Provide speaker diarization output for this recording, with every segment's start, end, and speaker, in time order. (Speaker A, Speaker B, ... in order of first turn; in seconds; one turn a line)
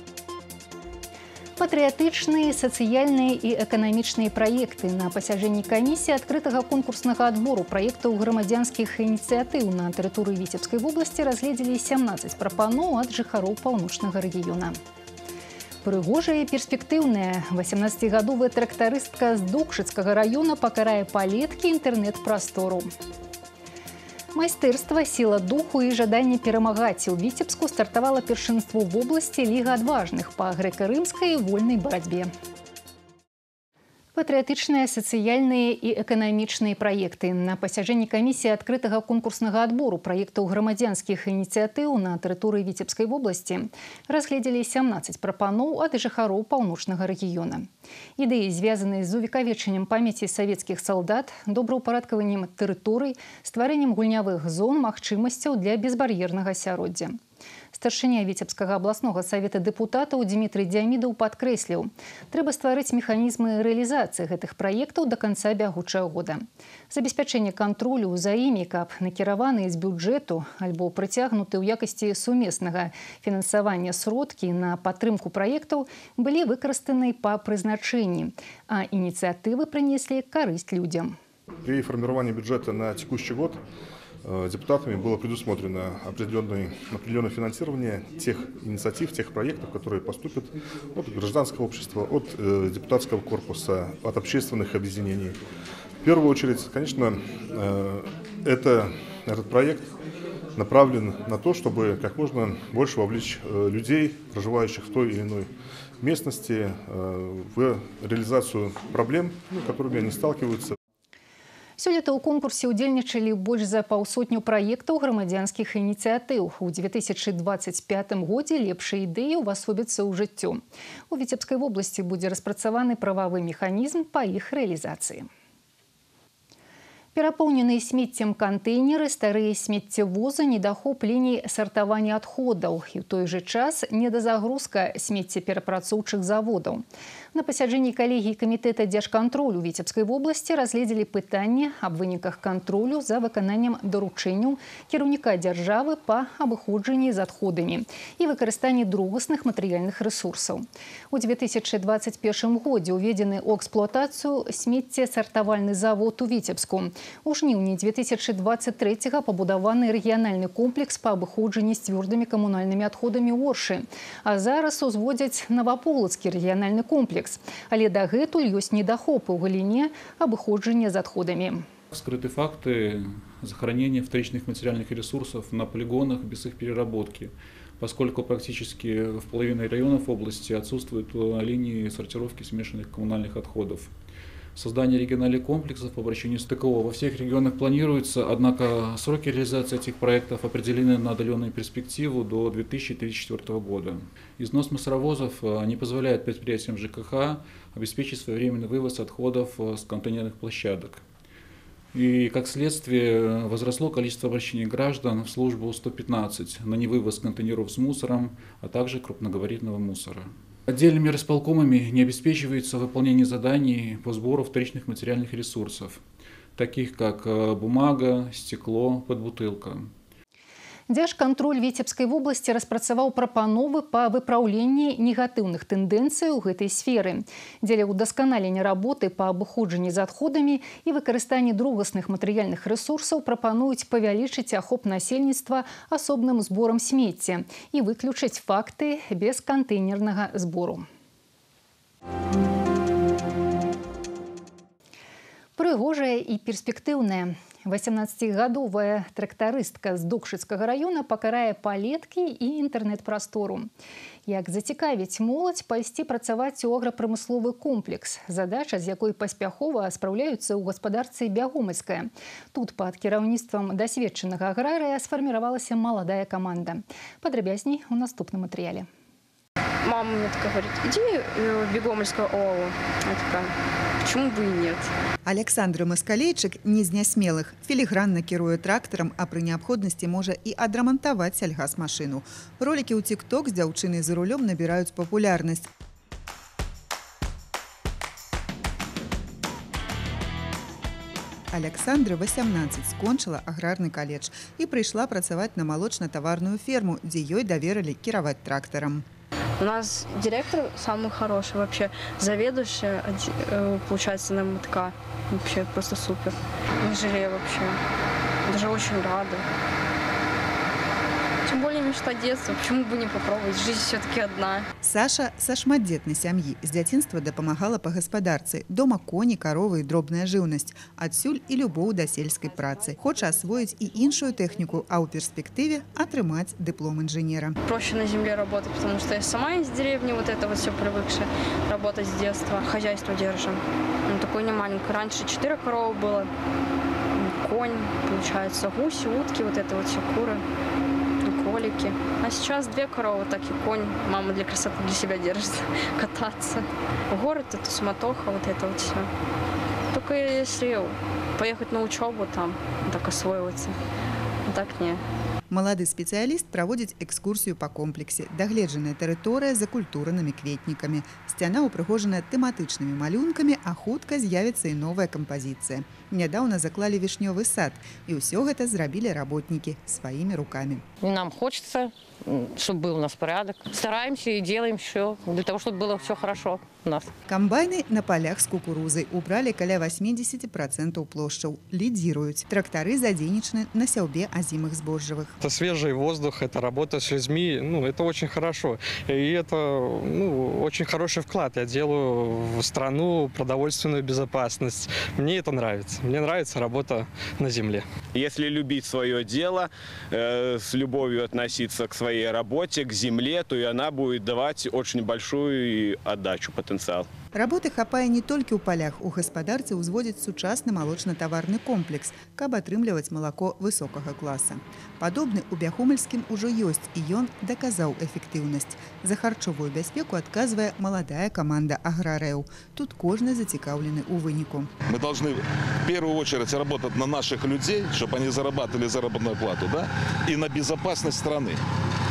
Speaker A: 1.6-14.8
Speaker A: 15.8-22.9
Speaker A: 24.3-32.3
Speaker A: 34.1-57.2
Speaker A: 57.7-81.2
Speaker B: 81.7-83.6
Speaker B: 84.2-95.4
Speaker B: 96.0-99.9
Speaker B: 100.6-105.5
Speaker B: 106.0-110.8
Speaker A: 111.8-125.3
Speaker A: 127.1-171.7
Speaker C: 171.9-183.9
Speaker C: 184.6-201.0
Speaker C: 201.9-216.0
Speaker C: 216.6-219.9
Speaker A: 220.9-240.9
Speaker A: 245.6-253.7
Speaker A: 254.3-268.9
Speaker D: 269.9-270.7
Speaker E: 275.3-285.7
Speaker E: 291.5-299.1
Speaker D: 299.6-304.7
Speaker D: 305.4-306.1
Speaker D: 306.8-307.7
Speaker D: 308.5-309.4
Speaker D: 311.5-314.0
Speaker E: 314.8-327.6
Speaker D: 327.7-333.5
Speaker D: 334.1-336.1
Speaker D: 337.4-340.4
Speaker D: 341.3-345.4
Speaker D: 347.1-349.0
Speaker D: 350.0-350.7
Speaker D: 351.4-352.4
Speaker D: 352.9-353.6
Speaker D: 354.5-355.0
Speaker E: 355.5-370.8
Speaker F: 371.0-377.1
Speaker E: 377.3-385.3
Speaker G: 385.4-397.8
Speaker H: 398.1-407.1
Speaker E: 407.4-424.7
Speaker I: 424.9-431.6